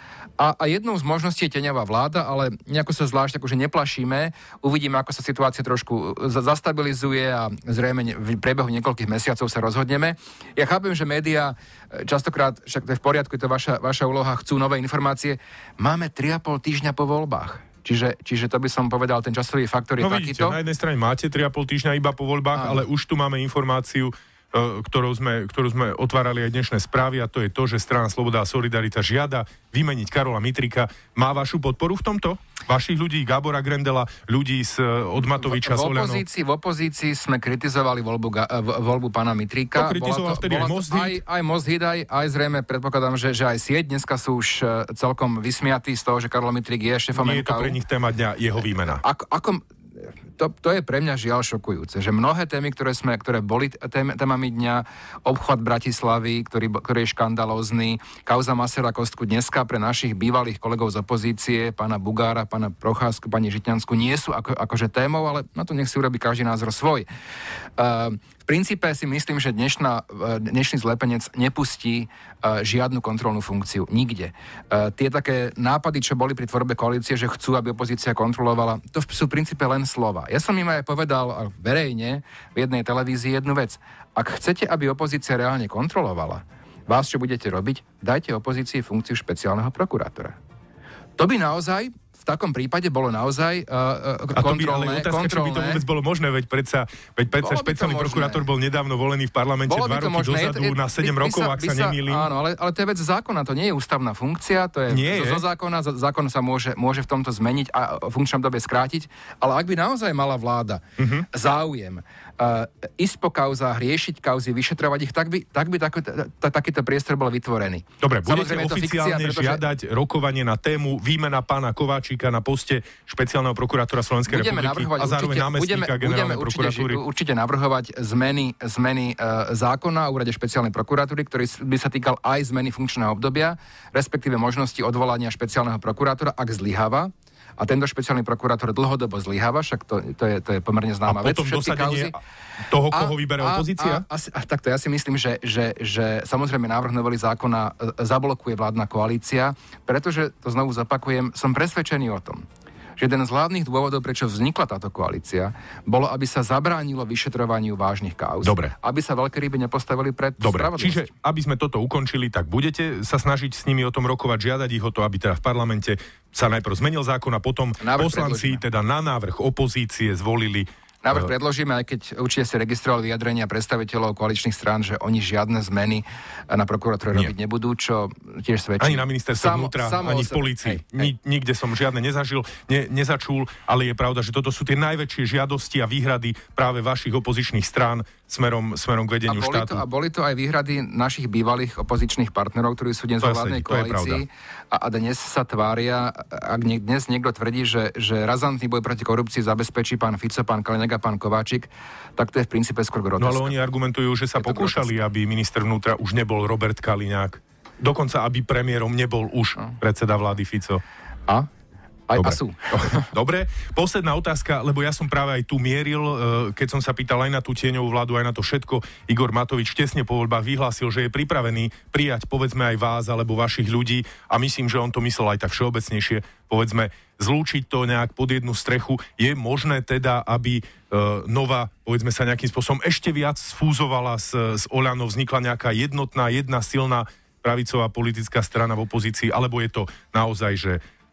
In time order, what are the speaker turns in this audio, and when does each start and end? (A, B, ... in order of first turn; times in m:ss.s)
0:00.4-0:20.6 A
0:20.0-0:36.2 B
0:22.6-0:22.8 A
0:35.4-0:47.8 A
0:39.8-0:41.2 B
0:47.1-0:49.0 B
0:48.7-0:49.6 A
0:50.4-1:07.1 A
1:07.8-1:30.4 A
1:31.2-1:35.8 A
1:34.3-1:42.3 B
1:37.4-1:38.5 A
1:39.7-1:59.6 A
1:44.9-1:45.4 B
1:51.0-1:51.3 B
1:58.0-2:07.0 B
2:04.3-2:22.2 A
2:21.1-2:22.2 B
2:22.7-2:24.0 B
2:22.9-2:32.4 A
2:33.0-2:41.1 A
2:38.4-2:38.7 B
2:40.4-2:51.3 B
2:47.8-2:48.6 A
2:51.0-3:01.1 A
2:58.8-3:09.8 B
3:09.3-3:23.6 A
3:13.2-3:14.2 B
3:23.2-3:30.8 B
3:24.4-3:24.9 A
3:32.1-3:33.1 A
3:32.2-4:00.8 B